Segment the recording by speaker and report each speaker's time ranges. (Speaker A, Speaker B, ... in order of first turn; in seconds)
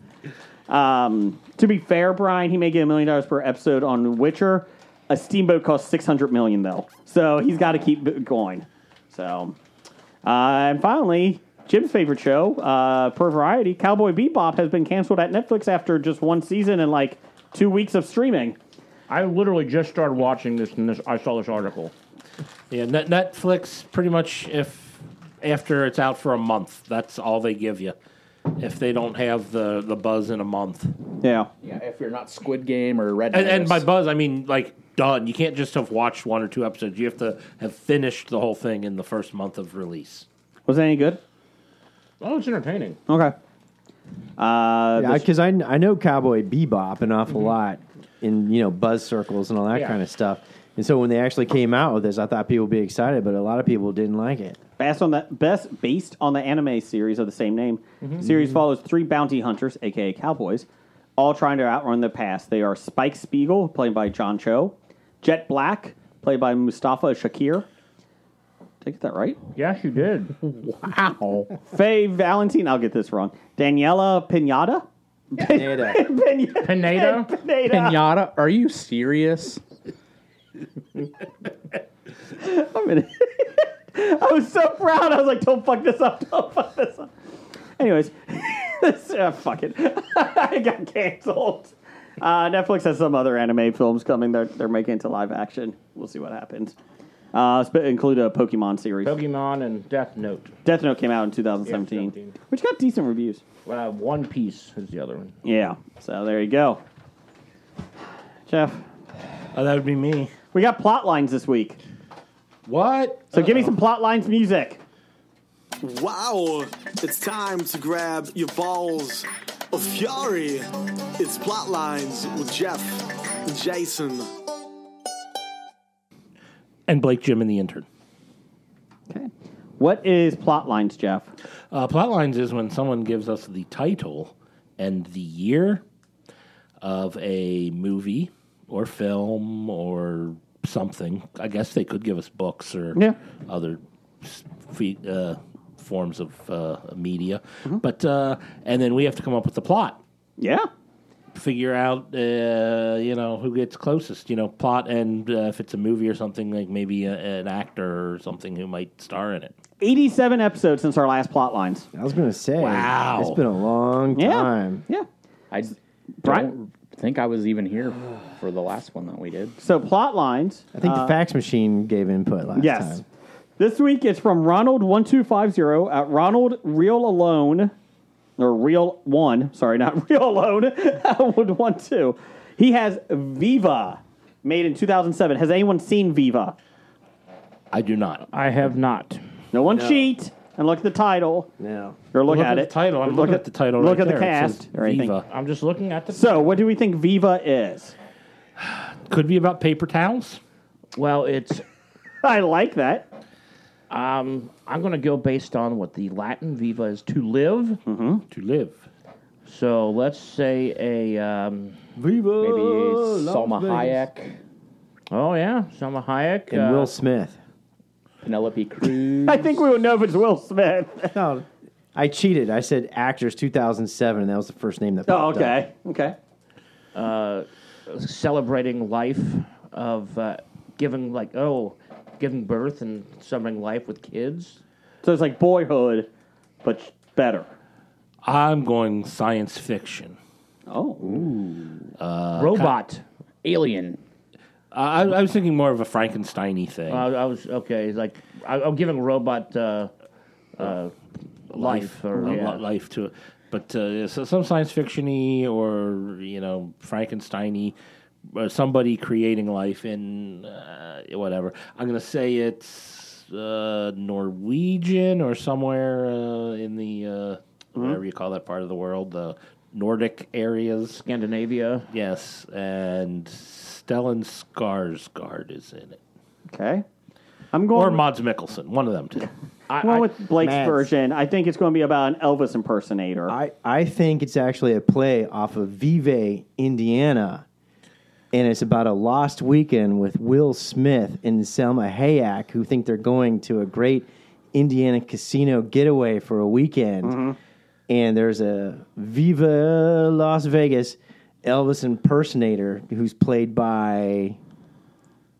Speaker A: 0.7-9.6, 10.2-18.6, 31.2-31.5, 40.7-41.2, 43.1-43.3, 44.4-45.2, 54.8-60.6, 61.2-67.7, 68.8-69.4, 71.7-78.0, 82.3-87.1, 87.8-96.7, 97.3-99.1, 100.6-103.4, 105.4-106.8, 108.5-108.8, 110.5-111.8, 113.3-114.8, 129.1-131.3, 150.4-150.7, 159.8-161.9, 164.2-165.1, 166.2-166.5, 169.6-171.2, 172.6-173.0, 173.6-177.7, 178.4-186.6, 189.5-191.5, 192.1-195.2, 196.1-197.9, 202.2-203.1, 207.8-208.2, 219.2-221.2, 225.1-226.2, 235.0-236.1, 236.6-237.5, 240.7-241.3, 276.5-276.8, 277.5-278.0, 279.8-283.3, 297.0-297.4
Speaker B: 19.1-21.9, 42.2-43.0, 58.0-58.2, 69.5-70.4, 76.6-77.3, 99.0-100.5, 101.7-102.3, 103.7-105.3, 188.3-189.2, 195.3-196.2, 201.0-201.6, 203.9-207.8, 209.5-211.8, 215.1-216.9, 226.9-234.6, 242.3-243.0, 246.9-249.9, 250.6-250.9, 251.5-252.6, 271.0-271.9, 279.7-280.1
Speaker C: 22.7-27.9, 28.6-30.9, 33.3-40.2, 109.5-110.3, 112.7-113.7, 126.9-127.8, 131.7-135.8, 136.8-150.0, 151.3-159.5, 162.6-163.4, 187.7-188.2, 192.2-195.2, 198.6-200.4, 208.3-208.8, 238.2-240.2, 242.0-242.7, 244.7-247.1, 251.5-257.7, 258.3-271.0, 271.9-276.0, 277.7-279.3
Speaker D: 31.6-33.8, 70.8-71.5, 77.7-79.6, 165.5-169.6, 212.4-214.3, 218.2-219.5, 243.4-244.0
Speaker E: 45.0-54.6, 75.4-76.0, 161.9-164.8, 170.7-173.0, 189.7-190.1, 191.6-191.9, 212.0-214.0, 216.5-217.4, 221.1-225.6, 280.4-280.9, 283.3-287.4, 288.3-297.2, 297.9-304.4
Speaker F: 115.8-120.7, 121.2-124.3